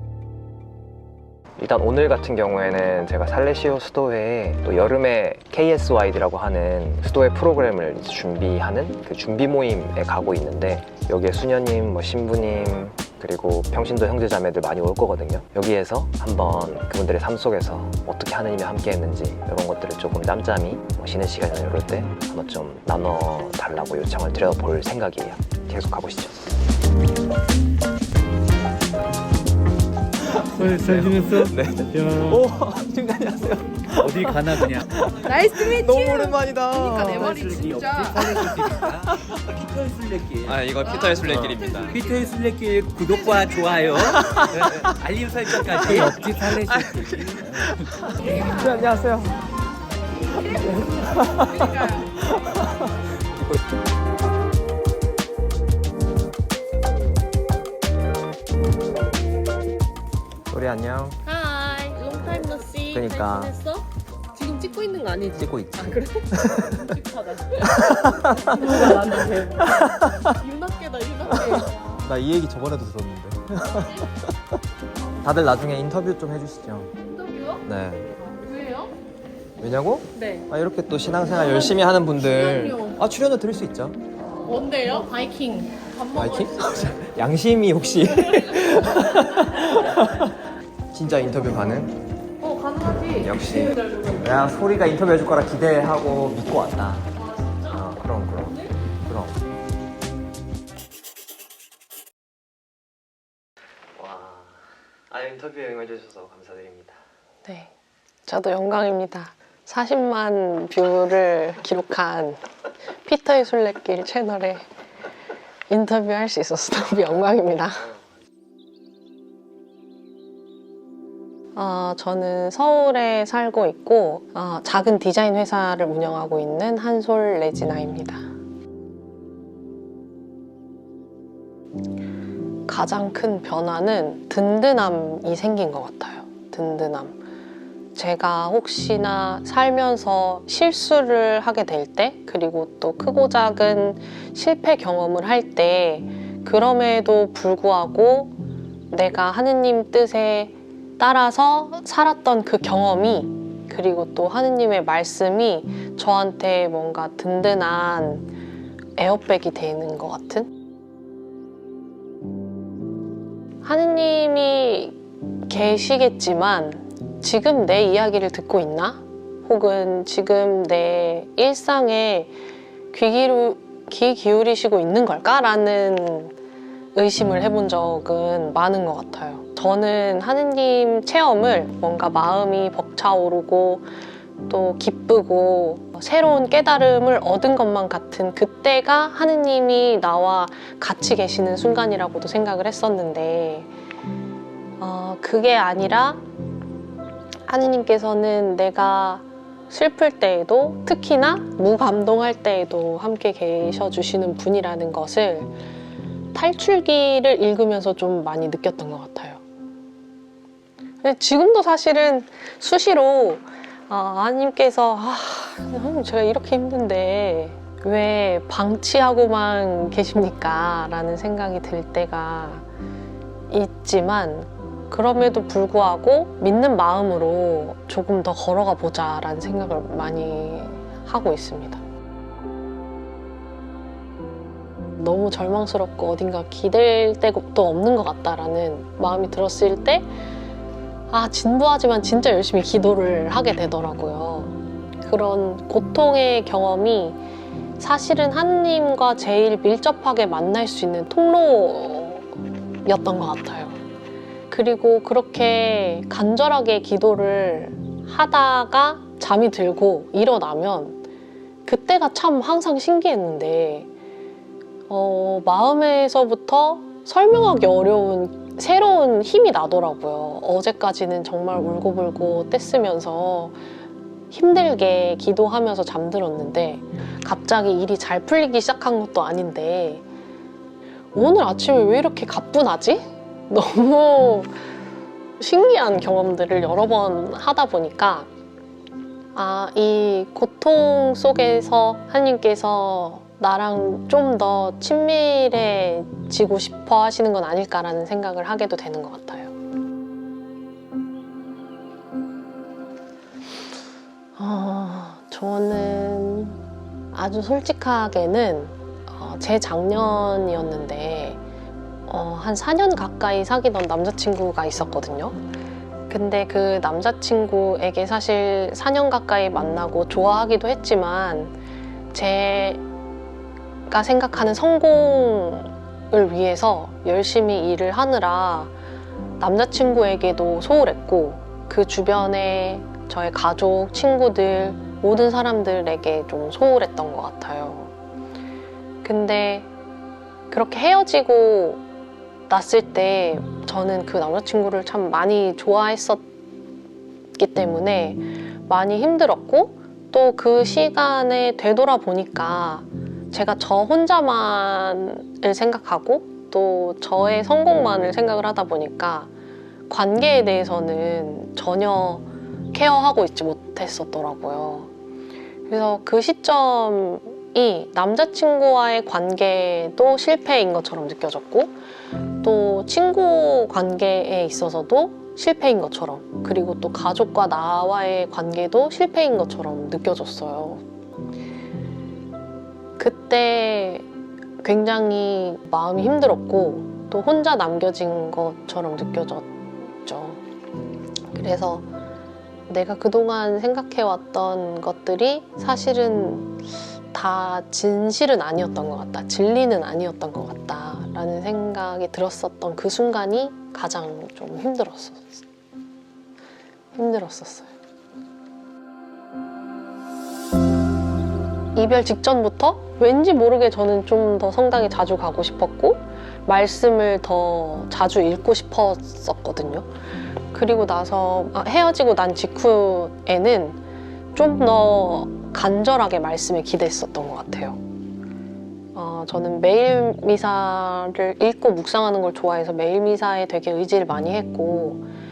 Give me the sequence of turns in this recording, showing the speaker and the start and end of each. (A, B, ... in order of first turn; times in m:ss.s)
0:01.6-0:26.4 A
0:30.3-0:37.4 A
0:30.5-0:32.4 B
0:34.0-0:35.0 B
0:35.2-0:38.4 C
0:37.2-0:40.6 B
0:38.1-0:39.4 A
0:40.4-0:42.0 A
0:40.9-0:42.0 C
0:41.3-0:47.7 B
0:44.0-0:44.9 A
0:45.5-0:49.4 A
0:48.3-0:48.6 C
0:50.3-0:53.6 A
0:50.7-0:52.1 C
1:00.5-1:01.2 A
1:01.2-1:06.3 D
1:01.8-1:03.5 C
1:02.8-1:03.6 A
1:04.5-1:06.0 C
1:05.3-1:10.4 A
1:06.7-1:07.6 C
1:08.5-1:09.6 C
1:10.4-1:11.8 C
1:11.3-1:14.3 A
1:15.2-1:16.9 A
1:17.1-1:17.6 C
1:17.6-1:18.1 A
1:18.3-1:18.9 C
1:19.6-1:24.0 A
1:20.2-1:20.4 C
1:21.4-1:21.7 C
1:22.2-1:23.0 C
1:24.4-1:26.9 C
1:26.1-1:30.4 A
1:30.9-1:32.0 A
1:32.4-1:34.3 C
1:33.0-1:39.4 A
1:37.3-1:37.7 C
1:43.9-1:47.0 A
1:47.4-1:47.7 D
1:48.2-1:52.4 D
1:53.0-1:54.6 D
1:55.7-1:58.0 D
2:01.5-2:08.3 D
2:12.7-2:17.2 D
2:17.9-2:28.4 D
2:28.9-2:38.3 D
2:39.0-2:40.5 D
2:43.6-2:52.3 D
2:52.9-2:56.4 D
2:56.9-3:03.9 D
3:04.5-3:13.7 D
3:14.8-3:16.2 D
3:17.5-3:25.5 D
3:26.3-3:29.4 D
3:31.0-3:42.6 D
3:43.5-3:51.8 D
3:55.0-4:00.1 D
4:01.1-4:07.2 D
4:07.8-4:12.3 D
4:12.8-4:13.7 D
4:14.5-4:21.0 D
4:21.6-4:23.9 D
4:24.9-4:33.6 D
4:34.3-4:40.0 D
4:41.1-4:44.5 D
4:45.4-4:48.3 D
4:49.3-4:59.5 D
5:04.4-5:11.4 D
5:12.1-5:15.4 D
5:16.1-5:21.5 D
5:22.1-5:22.8 D
5:23.9-5:28.7 D
5:29.4-5:37.9 D
5:39.0-5:39.7 D
5:40.5-5:41.8 D
5:42.5-5:46.2 D
5:47.4-5:59.3 D
5:59.9-6:04.9 D
6:05.7-6:11.8 D
6:12.4-6:20.8 D
6:23.0-6:24.0 D
6:24.6-6:30.4 D
6:31.3-6:31.9 D
6:32.7-6:45.4 D
6:46.9-6:47.7 D
6:51.7-6:59.9 D
7:00.5-7:03.8 D
7:04.3-7:07.8 D
7:08.9-7:15.0 D